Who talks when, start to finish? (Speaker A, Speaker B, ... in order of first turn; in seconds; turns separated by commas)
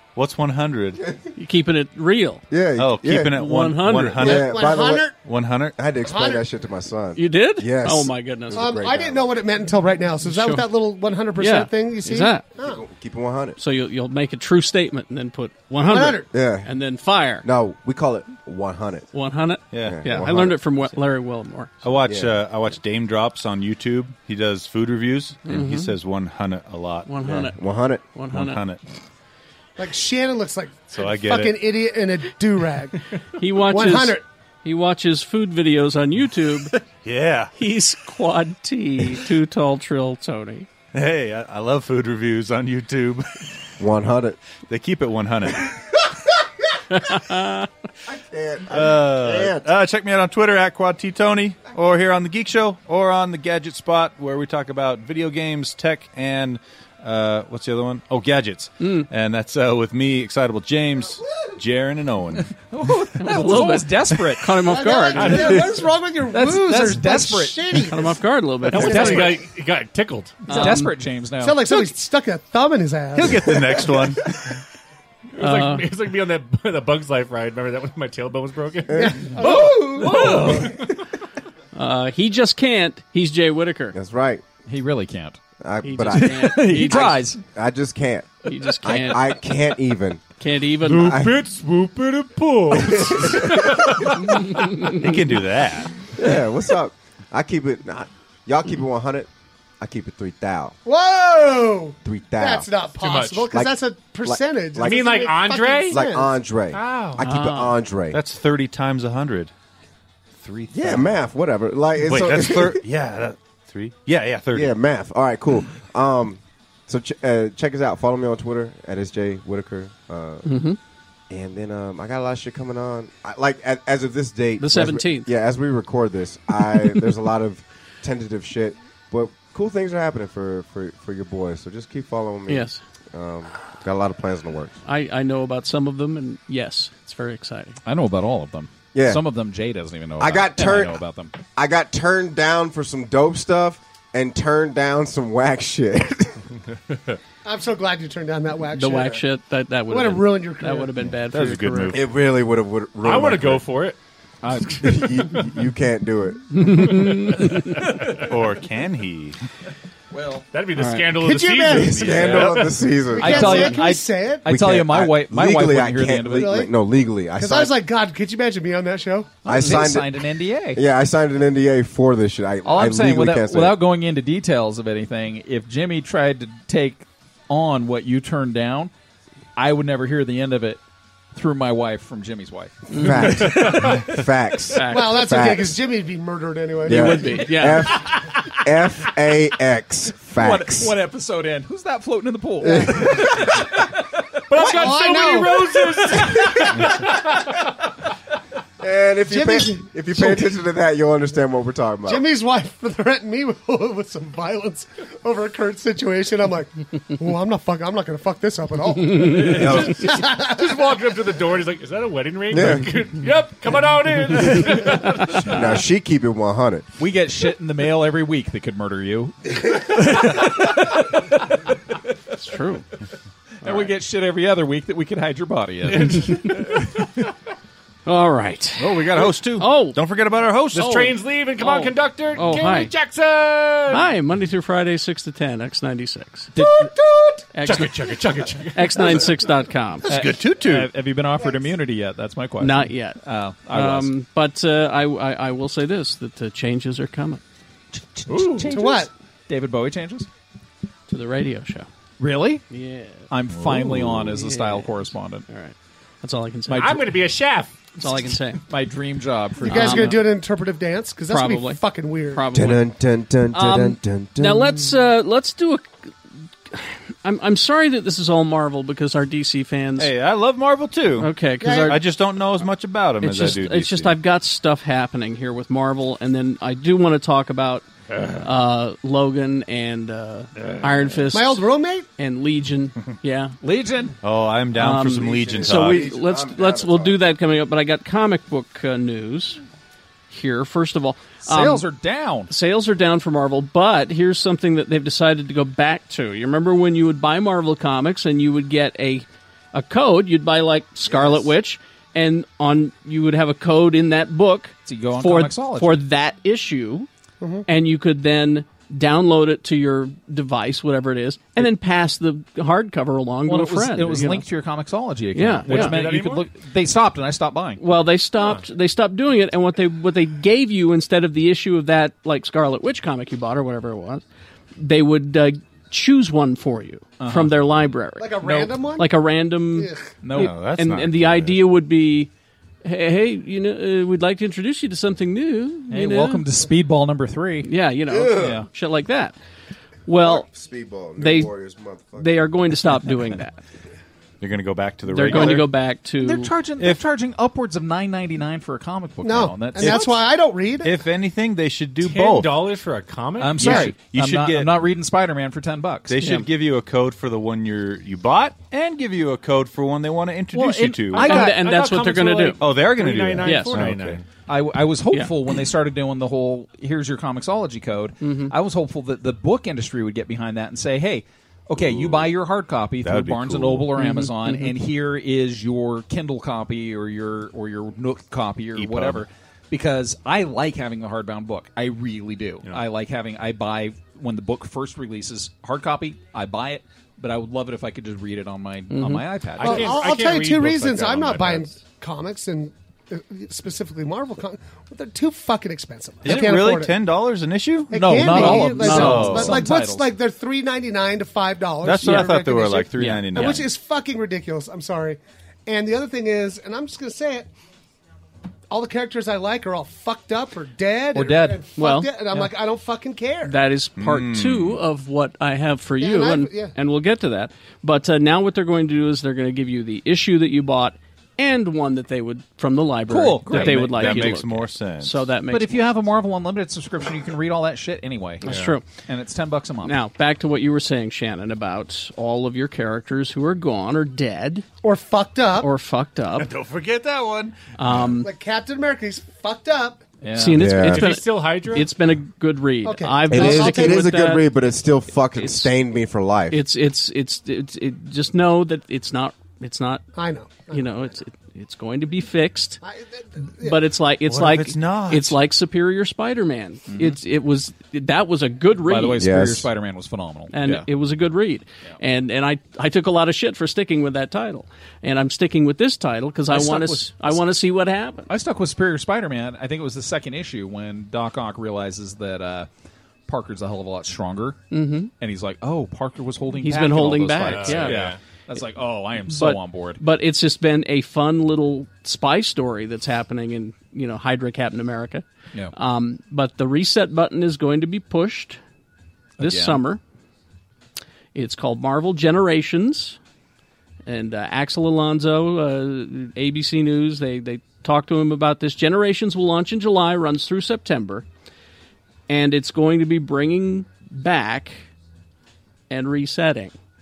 Speaker A: 0.1-1.0, Speaker B: 1.4-2.4, Speaker C: 2.5-3.3, Speaker A: 2.8-5.8, Speaker B: 3.3-4.2, Speaker C: 4.2-5.1, Speaker D: 4.2-5.1, Speaker C: 5.8-9.3, Speaker D: 6.0-6.4, Speaker B: 7.2-8.8, Speaker D: 8.5-12.8, Speaker B: 10.2-10.7, Speaker B: 11.4-12.4, Speaker C: 12.6-13.6, Speaker B: 13.6-17.4, Speaker D: 15.8-16.3, Speaker C: 16.3-16.7, Speaker C: 17.4-19.1, Speaker B: 19.1-21.7, Speaker A: 19.7-20.0, Speaker C: 19.8-20.6, Speaker A: 21.8-27.1, Speaker C: 22.1-22.4, Speaker B: 25.4-25.9, Speaker B: 27.1-28.6, Speaker C: 27.2-28.0, Speaker A: 28.3-28.8, Speaker D: 29.8-34.2, Speaker A: 30.9-31.6, Speaker B: 33.4-36.7, Speaker A: 37.0-37.5, Speaker B: 37.5-40.7, Speaker A: 40.9-43.2, Speaker C: 43.8-44.4, Speaker A: 44.7-45.8, Speaker B: 46.9-47.7, Speaker C: 48.0-49.7, Speaker A: 48.7-62.5, Speaker B: 58.8-59.1, Speaker E: 62.7-64.7, Speaker B: 63.2-65.6, Speaker D: 64.6-68.2, Speaker F: 65.1-65.8, Speaker E: 66.3-67.9, Speaker B: 67.9-69.2, Speaker E: 68.7-69.4, Speaker D: 68.7-69.4, Speaker F: 68.8-70.5, Speaker B: 70.5-70.9, Speaker E: 70.5-71.7, Speaker D: 71.4-74.2, Speaker A: 73.1-74.2, Speaker F: 75.3-80.8, Speaker B: 75.4-75.9, Speaker C: 78.9-79.4, Speaker D: 78.9-80.8, Speaker E: 80.2-80.4, Speaker B: 81.7-83.9, Speaker C: 83.9-84.4, Speaker E: 84.7-85.4, Speaker C: 85.6-86.6, Speaker B: 85.8-87.3, Speaker E: 86.0-87.4, Speaker C: 87.5-90.2, Speaker B: 88.4-89.4, Speaker B: 90.4-91.2, Speaker A: 90.8-95.9, Speaker C: 91.0-91.4, Speaker C: 92.8-93.8, Speaker F: 92.9-94.2, Speaker C: 96.1-99.3, Speaker C: 99.8-100.8, Speaker D: 100.8-106.3, Speaker C: 102.0-102.7, Speaker F: 103.0-103.5, Speaker C: 104.2-105.2, Speaker F: 104.8-106.0, Speaker C: 105.9-108.2, Speaker F: 106.7-107.2, Speaker B: 107.2-107.7, Speaker A: 108.1-109.5, Speaker A: 110.4-111.1, Speaker C: 110.7-112.8, Speaker A: 112.0-114.7, Speaker C: 114.5-120.5, Speaker B: 120.4-120.8, Speaker C: 121.3-134.8, Speaker B: 124.6-125.3, Speaker B: 132.5-132.8, Speaker B: 134.8-137.8, Speaker E: 137.8-141.3, Speaker C: 138.9-139.2, Speaker C: 140.2-141.0, Speaker C: 141.5-146.4, Speaker D: 147.4-149.2, Speaker B: 148.7-151.9, Speaker D: 149.9-150.9, Speaker A: 151.3-152.1, Speaker C: 151.9-153.6, Speaker F: 153.0-155.5, Speaker E: 154.4-154.8, Speaker C: 154.8-156.8, Speaker B: 156.6-157.7, Speaker F: 157.0-158.2, Speaker A: 158.1-159.3, Speaker E: 160.1-160.4, Speaker F: 160.5-162.9, Speaker B: 160.8-161.1, Speaker D: 161.2-162.4, Speaker C: 161.7-163.8, Speaker A: 162.0-162.5, Speaker D: 163.1-164.5, Speaker E: 163.2-166.6, Speaker C: 164.4-167.7, Speaker D: 166.3-166.7, Speaker D: 167.3-169.4, Speaker E: 169.4-170.8, Speaker C: 169.4-173.8, Speaker E: 172.6-178.9, Speaker E: 179.6-180.8, Speaker E: 181.3-183.9, Speaker C: 182.9-185.8, Speaker B: 183.0-183.8, Speaker B: 184.7-185.3, Speaker D: 184.9-187.5, Speaker C: 186.8-190.9, Speaker B: 186.9-188.0, Speaker E: 190.3-194.8, Speaker C: 192.6-193.6, Speaker D: 192.6-193.2, Speaker F: 194.5-197.6, Speaker D: 194.6-196.0, Speaker C: 196.3-196.8, Speaker C: 198.8-202.3, Speaker D: 199.3-200.6, Speaker D: 202.1-211.0, Speaker F: 209.2-215.7, Speaker C: 209.5-210.0, Speaker C: 212.5-212.9, Speaker C: 215.4-216.8, Speaker E: 217.0-221.2, Speaker B: 222.4-222.8, Speaker E: 223.6-226.5, Speaker B: 223.6-223.9, Speaker B: 228.1-230.0, Speaker A: 228.8-231.1, Speaker F: 230.7-234.1, Speaker B: 230.8-232.9, Speaker B: 233.9-236.5, Speaker E: 236.5-236.9, Speaker D: 236.6-237.5, Speaker B: 237.5-237.9, Speaker F: 237.6-239.3, Speaker B: 238.7-240.1, Speaker A: 240.0-240.9, Speaker E: 240.1-244.1, Speaker D: 241.4-241.7, Speaker B: 242.6-247.4, Speaker E: 248.0-250.3, Speaker F: 248.3-248.7, Speaker D: 248.7-249.1, Speaker B: 251.1-251.9, Speaker E: 252.2-252.6, Speaker B: 252.7-253.3, Speaker E: 253.3-255.4, Speaker B: 254.2-257.1, Speaker E: 256.7-257.0, Speaker F: 256.7-257.8, Speaker B: 258.0-258.6, Speaker E: 258.0-260.2, Speaker D: 259.6-262.4, Speaker B: 259.6-260.1, Speaker B: 261.3-262.9, Speaker C: 262.5-264.9, Speaker B: 263.5-266.1, Speaker B: 266.7-270.1, Speaker A: 270.0-274.1, Speaker B: 271.2-272.0, Speaker D: 271.6-272.0, Speaker B: 273.2-277.8, Speaker A: 278.1-278.4, Speaker B: 278.4-283.6, Speaker A: 280.6-281.0, Speaker D: 281.3-282.1, Speaker E: 283.6-284.1, Speaker A: 284.2-286.1, Speaker B: 284.7-289.6, Speaker C: 285.2-287.2, Speaker B: 290.3-291.8, Speaker E: 291.4-292.5, Speaker B: 292.5-307.1, Speaker C: 301.1-301.4, Speaker E: 304.9-306.0, Speaker D: 307.4-307.7, Speaker B: 307.6-314.4, Speaker E: 313.4-317.8, Speaker B: 315.3-316.1, Speaker F: 315.6-316.5, Speaker B: 317.8-324.2, Speaker F: 318.4-318.6, Speaker B: 324.8-332.3, Speaker E: 327.2-327.6, Speaker D: 328.2-329.1, Speaker D: 329.7-330.1, Speaker E: 330.2-330.6, Speaker A: 330.3-331.6, Speaker B: 332.8-336.5, Speaker E: 335.9-337.7, Speaker B: 337.6-339.3, Speaker C: 338.1-338.6, Speaker E: 338.4-338.7, Speaker B: 340.1-340.5, Speaker C: 340.1-342.5, Speaker B: 341.2-341.5, Speaker B: 342.2-343.6, Speaker A: 344.4-345.7, Speaker B: 345.1-346.5, Speaker E: 345.2-350.2, Speaker D: 349.2-350.9, Speaker A: 350.8-352.6, Speaker F: 352.0-353.8, Speaker E: 353.4-356.2, Speaker A: 353.6-354.7, Speaker B: 353.6-353.9, Speaker A: 356.1-361.5, Speaker B: 356.2-356.5, Speaker E: 360.5-361.6, Speaker B: 361.1-362.6, Speaker F: 361.1-364.2, Speaker A: 362.6-364.2, Speaker B: 363.4-363.8, Speaker E: 364.5-390.0, Speaker B: 368.2-368.5, Speaker A: 371.8-372.3, Speaker A: 373.0-373.9, Speaker B: 373.9-374.7, Speaker A: 378.8-379.2, Speaker B: 388.9-389.2, Speaker F: 389.6-391.7, Speaker D: 389.6-396.9, Speaker A: 396.2-399.6, Speaker E: 396.2-396.6, Speaker D: 397.9-407.5, Speaker E: 397.9-400.1, Speaker B: 398.3-399.4, Speaker A: 401.8-403.6, Speaker E: 403.0-403.5, Speaker D: 408.7-413.6, Speaker E: 411.1-411.6, Speaker B: 411.8-412.5, Speaker B: 413.4-425.9, Speaker A: 414.0-414.8, Speaker D: 416.0-416.7, Speaker E: 423.1-424.4, Speaker A: 423.4-425.2, Speaker E: 425.5-430.0, Speaker B: 428.4-428.8, Speaker F: 428.5-428.7, Speaker B: 429.8-434.6, Speaker D: 434.8-435.7, Speaker B: 435.6-436.5, Speaker A: 436.4-437.6, Speaker B: 437.8-438.3, Speaker D: 438.2-440.0, Speaker E: 440.2-440.7, Speaker B: 440.3-444.5, Speaker C: 440.6-441.1, Speaker F: 440.8-441.9, Speaker D: 442.8-444.1, Speaker C: 443.3-446.6, Speaker B: 445.3-445.7, Speaker B: 446.5-450.1, Speaker D: 450.1-451.1, Speaker B: 450.7-452.8, Speaker D: 452.8-453.8, Speaker B: 453.6-459.3, Speaker A: 454.3-455.4, Speaker E: 456.9-457.2, Speaker E: 458.8-460.9, Speaker C: 459.2-459.7, Speaker B: 460.5-468.3, Speaker E: 466.5-467.4, Speaker E: 468.3-472.7, Speaker E: 473.3-474.6, Speaker B: 474.7-475.1, Speaker E: 475.1-480.0, Speaker B: 476.6-478.0, Speaker F: 477.4-478.2, Speaker B: 479.3-488.6, Speaker E: 489.4-489.8, Speaker B: 489.4-490.0, Speaker B: 491.3-493.2, Speaker B: 494.1-501.2, Speaker B: 502.3-504.9, Speaker B: 505.9-506.7